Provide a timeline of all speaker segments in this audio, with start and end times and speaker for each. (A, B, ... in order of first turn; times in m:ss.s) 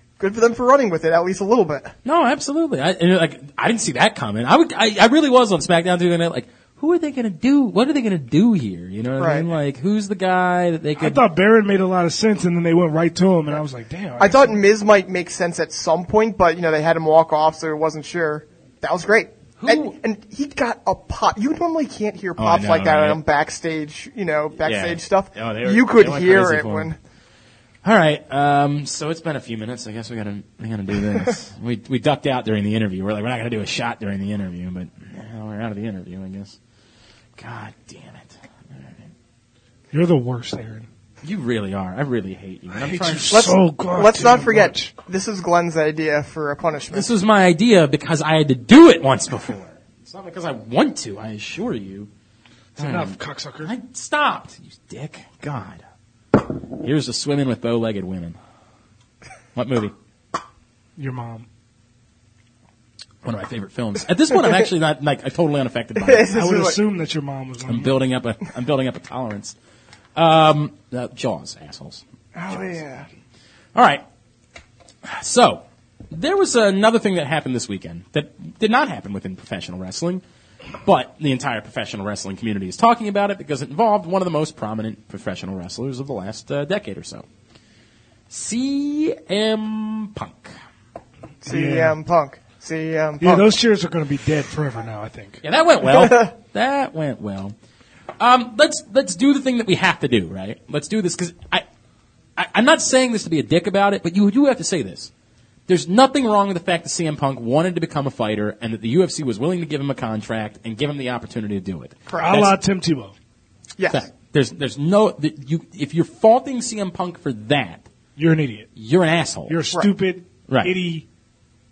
0:00.2-0:01.9 A
0:02.0-0:11.2 B
0:09.2-0:09.4 A
0:11.0-0:14.6 C
0:14.2-0:27.0 A
0:19.6-0:20.0 B
0:22.4-0:23.2 B
0:24.6-0:26.9 B
0:27.8-0:36.6 B
0:37.4-0:39.1 B
0:39.9-0:40.9 C
0:41.2-0:43.6 B
0:42.7-0:44.9 C
0:43.3-0:47.1 A
0:46.9-0:52.1 B
0:52.8-0:53.7 C
0:52.8-0:55.8 B
0:56.4-0:58.4 B
0:59.5-0:59.9 B
1:01.0-1:01.5 C
1:03.2-1:06.3 B
1:06.0-1:06.8 A
1:06.3-1:07.9 C
1:07.6-1:09.5 B
1:10.2-1:12.8 B
1:12.3-1:13.1 A
1:13.7-1:14.0 B
1:15.0-1:20.2 B
1:20.8-1:27.2 B
1:28.3-1:30.5 B
1:31.4-1:33.5 A
1:31.5-1:32.0 C
1:33.2-1:35.4 C
1:35.4-1:37.5 B
1:35.8-1:36.3 A
1:38.2-1:41.6 B
1:42.4-1:45.1 B
1:45.7-1:52.5 B
1:52.1-1:52.4 A
1:52.2-1:53.1 C
1:53.8-1:54.1 A
1:53.9-1:57.8 B
1:58.2-1:58.7 C
1:58.8-1:59.6 B
1:59.5-2:01.0 C
2:00.5-2:00.8 B